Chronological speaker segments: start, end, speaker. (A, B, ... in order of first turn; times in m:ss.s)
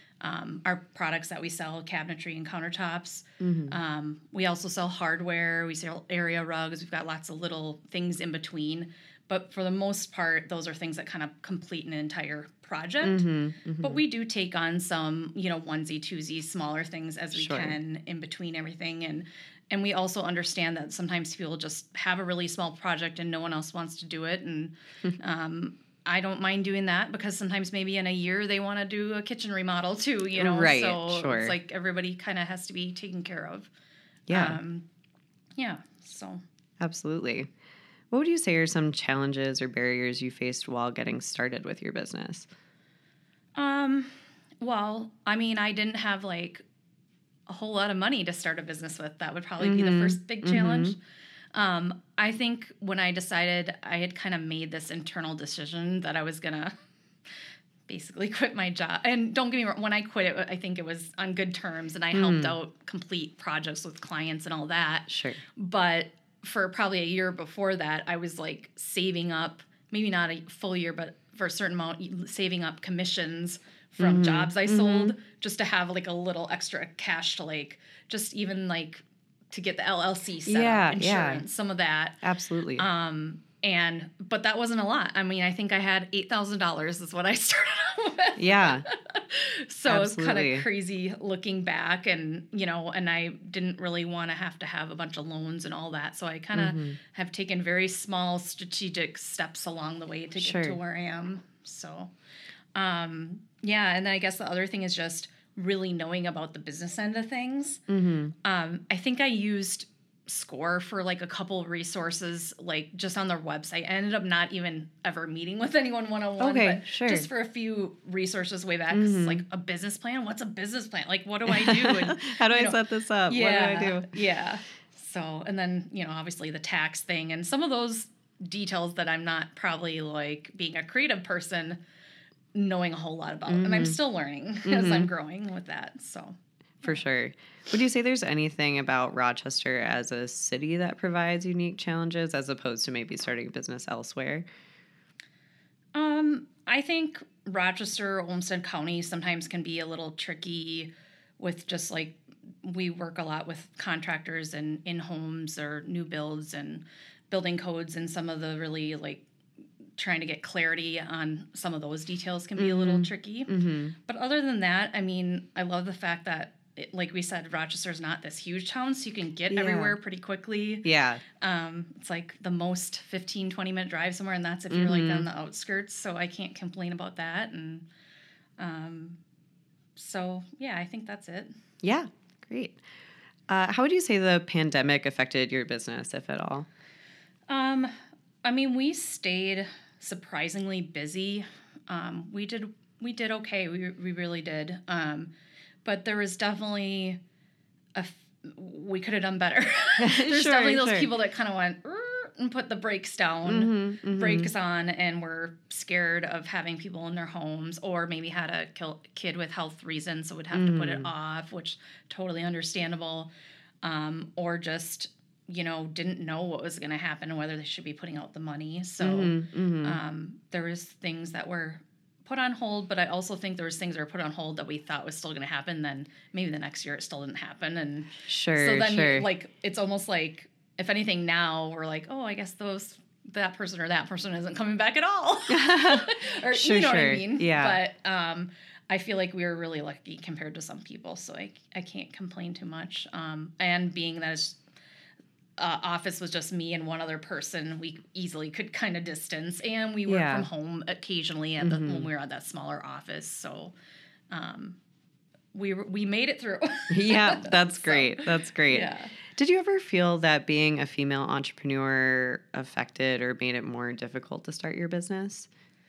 0:00.2-0:13.2 A
0:03.4-0:03.8 B
0:13.0-0:14.0 B
0:13.8-0:33.7 A
0:17.3-0:17.8 B
0:30.4-0:31.6 B
0:34.3-0:34.6 B
0:34.3-0:34.8 A
0:35.6-0:36.4 A
0:36.8-0:37.5 B
0:38.1-0:42.5 B
0:43.6-0:46.6 A
0:47.5-0:51.0 A
0:49.6-0:50.9 B
0:51.5-0:56.7 A
0:57.9-1:22.2 A
1:02.1-1:02.5 B
1:05.1-1:05.4 B
1:14.0-1:15.1 B
1:20.4-1:21.4 B
1:22.2-1:22.8 B
1:22.8-1:42.1 A
1:28.4-1:28.8 B
1:29.8-1:30.6 B
1:36.5-1:37.0 B
1:40.4-1:40.8 B
1:42.7-1:47.8 A
1:47.9-1:48.3 B
1:48.4-2:11.8 A
1:56.4-1:57.3 B
1:58.9-1:59.4 B
2:01.5-2:04.2 B
2:12.5-2:16.3 A
2:13.5-2:14.0 B
2:14.6-2:15.1 B
2:16.8-2:24.4 B
2:25.9-2:39.2 A
2:40.0-2:50.8 A
2:42.6-2:43.9 B
2:49.5-2:50.0 B
2:50.8-2:51.2 B
2:51.4-2:57.8 A
2:54.7-2:55.3 B
2:58.6-2:59.2 A
3:00.0-3:01.5 A
3:01.8-3:02.8 B
3:03.5-3:06.7 B
3:07.5-3:07.9 A
3:08.4-3:15.3 A
3:15.8-3:17.2 A
3:17.9-3:33.3 A
3:20.0-3:21.1 B
3:23.4-3:24.5 B
3:30.5-3:31.1 B
3:33.8-4:04.6 A
3:39.0-3:40.0 B
3:48.3-3:49.3 B
3:55.5-3:57.8 B
4:05.6-4:13.7 A
4:10.1-4:10.5 B
4:11.6-4:12.1 B
4:14.3-4:14.8 A
4:15.5-4:19.1 A
4:16.9-4:25.5 B